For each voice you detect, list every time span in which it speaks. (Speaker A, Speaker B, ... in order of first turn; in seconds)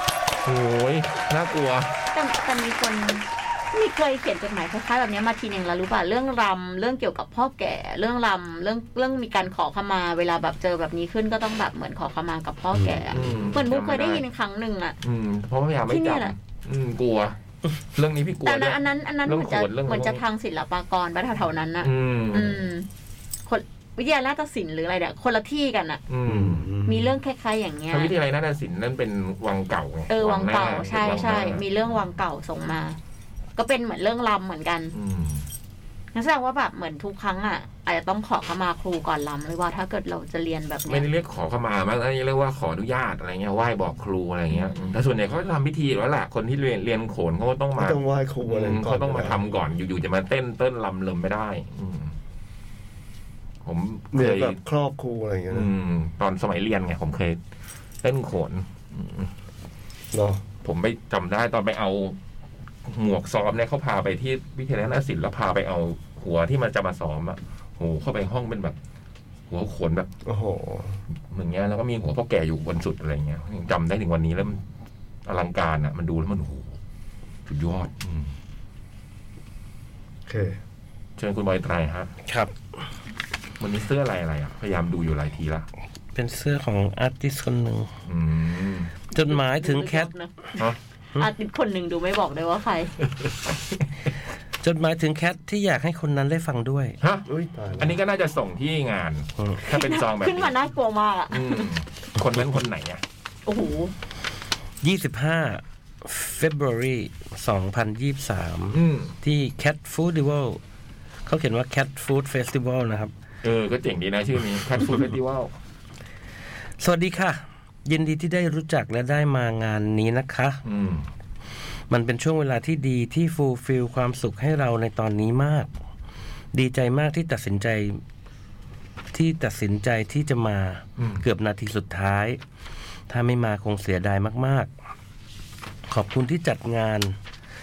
Speaker A: 0.5-1.9, 13.1-14.2, 15.0-17.4, 17.9-20.2, 21.8-22.6, 26.1-26.7, 27.9-31.7, 34.9-35.5, 40.9-52.1, 53.6-54.6, 55.5-57.4, 58.0-59.3, 60.6-62.2, 62.9-68.8, 69.5-70.1, 71.3-74.6, 75.3-76.8, 77.5-78.3, 81.2-82.1, 83.6-85.7, 88.1-88.9, 97.0-97.3, 97.8-100.5, 101.3-103.0, 108.7-109.1, 113.4-115.5, 120.7-121.1, 131.0-131.2
Speaker B: 2.1-15.0, 15.9-16.3, 18.4-22.9, 23.5-26.0, 26.9-28.1, 30.1-33.0, 33.6-34.9, 36.1-41.1, 44.5-45.0, 89.3-90.6, 91.2-93.0, 99.6-101.7, 103.5-103.9
Speaker C: 12.7-13.6, 26.3-27.1, 47.8-49.4, 54.1-55.7, 60.1-60.4, 70.2-71.0, 80.3-80.6, 97.3-98.0
Speaker D: 86.2-87.9, 89.1-90.1, 94.6-97.0, 99.4-99.6, 104.8-110.6, 111.3-113.1, 116.8-120.6, 121.9-125.7, 126.5-128.0, 129.1-132.4, 133.1-134.7, 135.9-137.2